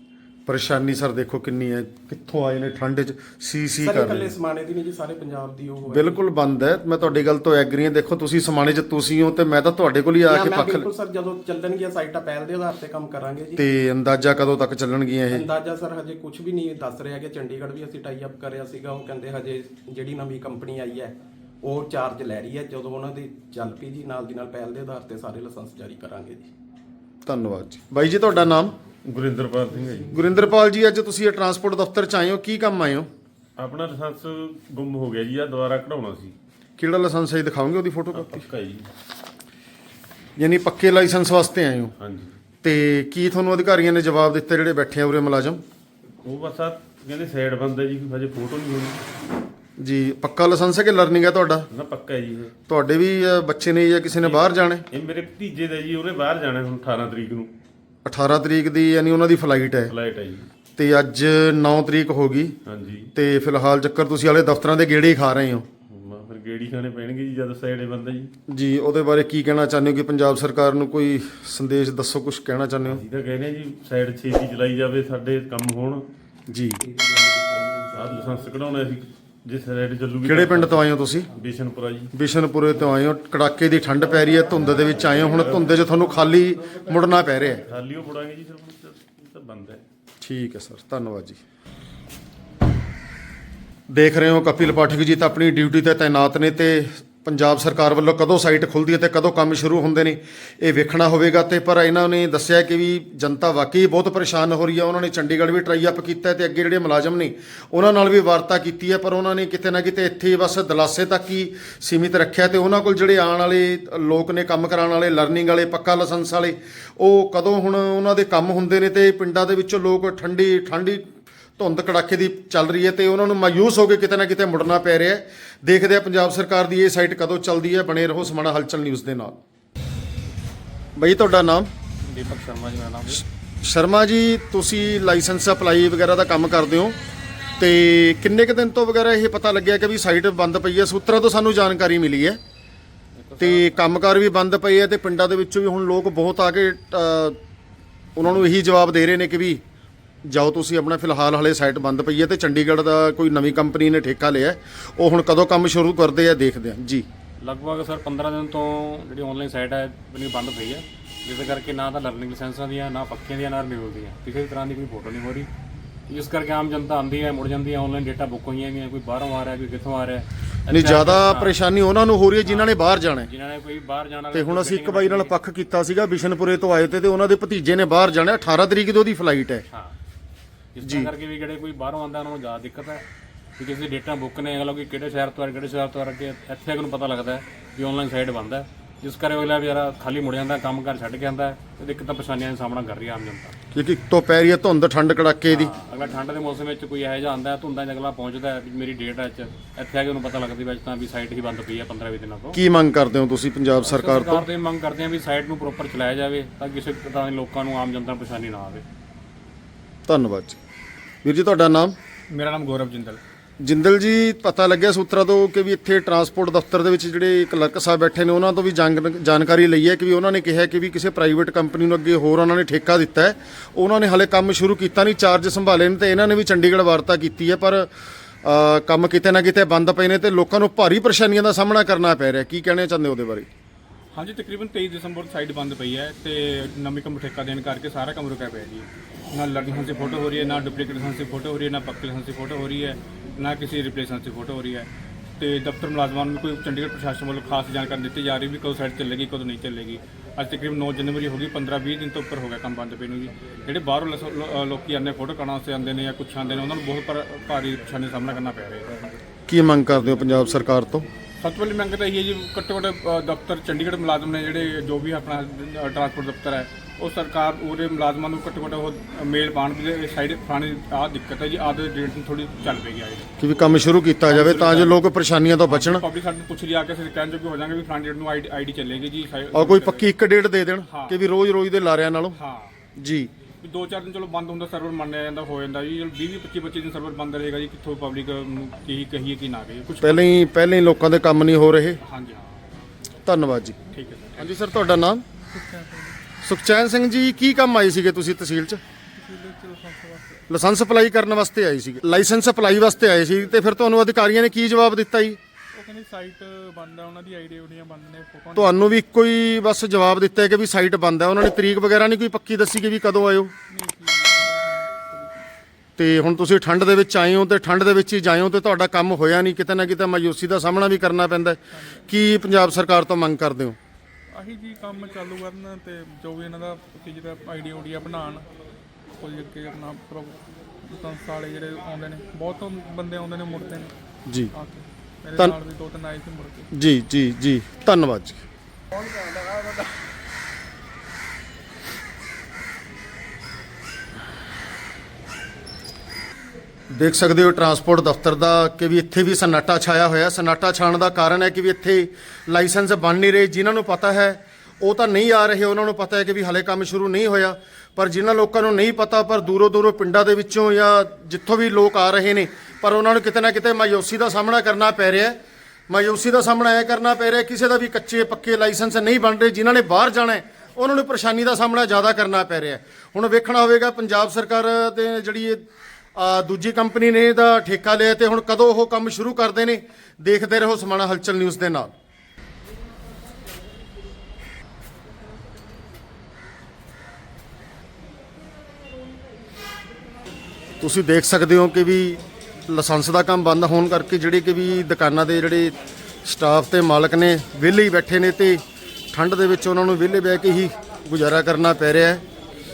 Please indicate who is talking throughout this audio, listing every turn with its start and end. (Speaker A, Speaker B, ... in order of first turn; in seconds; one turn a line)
Speaker A: 0.5-4.3
Speaker B: 3.8-6.2
Speaker A: 5.9-10.9
Speaker B: 10.2-13.6
Speaker A: 13.6-15.4
Speaker B: 15.3-26.5
Speaker A: 27.3-28.8
Speaker C: 29.1-30.3
Speaker A: 30.1-33.1
Speaker C: 33.6-36.4
Speaker A: 36.8-38.5
Speaker C: 38.1-38.9
Speaker A: 40.4-41.9
Speaker C: 42.0-42.4
Speaker A: 42.6-45.6
Speaker C: 46.2-49.0
Speaker A: 49.8-51.7
Speaker C: 51.7-52.5
Speaker A: 52.7-54.9
Speaker C: 54.2-57.5
Speaker A: 58.0-59.9
Speaker C: 59.9-60.5
Speaker A: 60.8-62.6
Speaker C: 62.6-63.1
Speaker A: 63.1-65.7
Speaker C: 65.9-68.3
Speaker A: 68.5-73.0
Speaker C: 72.9-76.1
Speaker A: 76.5-76.8
Speaker B: 76.8-78.4
Speaker C: 77.9-82.1
Speaker A: 80.2-81.3
Speaker A: 82.1-87.6
Speaker C: 85.0-85.8
Speaker C: 87.7-89.8
Speaker A: 90.2-91.4
Speaker A: 93.9-129.4
Speaker A: 131.0-131.7
Speaker D: 132.1-133.2
Speaker A: 133.1-137.0
Speaker A: 137.6-142.4
Speaker A: 143.4-147.4
Speaker A: 148.2-149.6
Speaker A: 150.3-157.1
Speaker D: 157.4-165.5
Speaker D: 166.1-171.5
Speaker A: 170.7-173.3
Speaker D: 172.4-172.7
Speaker D: 173.2-175.3
Speaker A: 174.3-179.7
Speaker D: 180.8-183.0
Speaker A: 180.8-181.1
Speaker D: 183.6-193.5
Speaker A: 193.7-195.7
Speaker D: 195.5-202.6
Speaker A: 202.5-204.5
Speaker D: 203.8-208.8
Speaker A: 210.1-210.6
Speaker A: 211.2-211.9
Speaker E: 212.3-213.2
Speaker A: 213.6-227.9
Speaker A: 228.4-233.5
Speaker E: 234.1-259.0
Speaker A: 259.5-261.1
Speaker E: 261.4-273.3
Speaker A: 273.4-276.0
Speaker E: 274.3-275.0
Speaker E: 275.7-280.1
Speaker A: 279.5-282.4
Speaker E: 280.9-281.2
Speaker E: 282.3-282.7
Speaker A: 283.0-283.3
Speaker E: 283.6-290.2
Speaker A: 290.0-292.0
Speaker E: 292.0-292.6
Speaker A: 293.2-293.8
Speaker E: 293.9-294.6
Speaker A: 294.4-295.2
Speaker F: 295.5-296.2
Speaker A: 296.4-298.8
Speaker F: 299.1-300.5
Speaker A: 300.5-305.4
Speaker F: 305.8-308.9
Speaker A: 308.6-313.5
Speaker F: 313.7-315.5
Speaker A: 316.0-323.8
Speaker F: 321.7-322.1
Speaker F: 324.3-328.5
Speaker F: 329.2-333.9
Speaker A: 334.3-334.5
Speaker F: 334.5-336.7
Speaker A: 336.7-338.4
Speaker A: 346.9-365.4
Speaker A: 365.9-375.6
Speaker A: 376.1-381.9
Speaker A: 390.8-402.2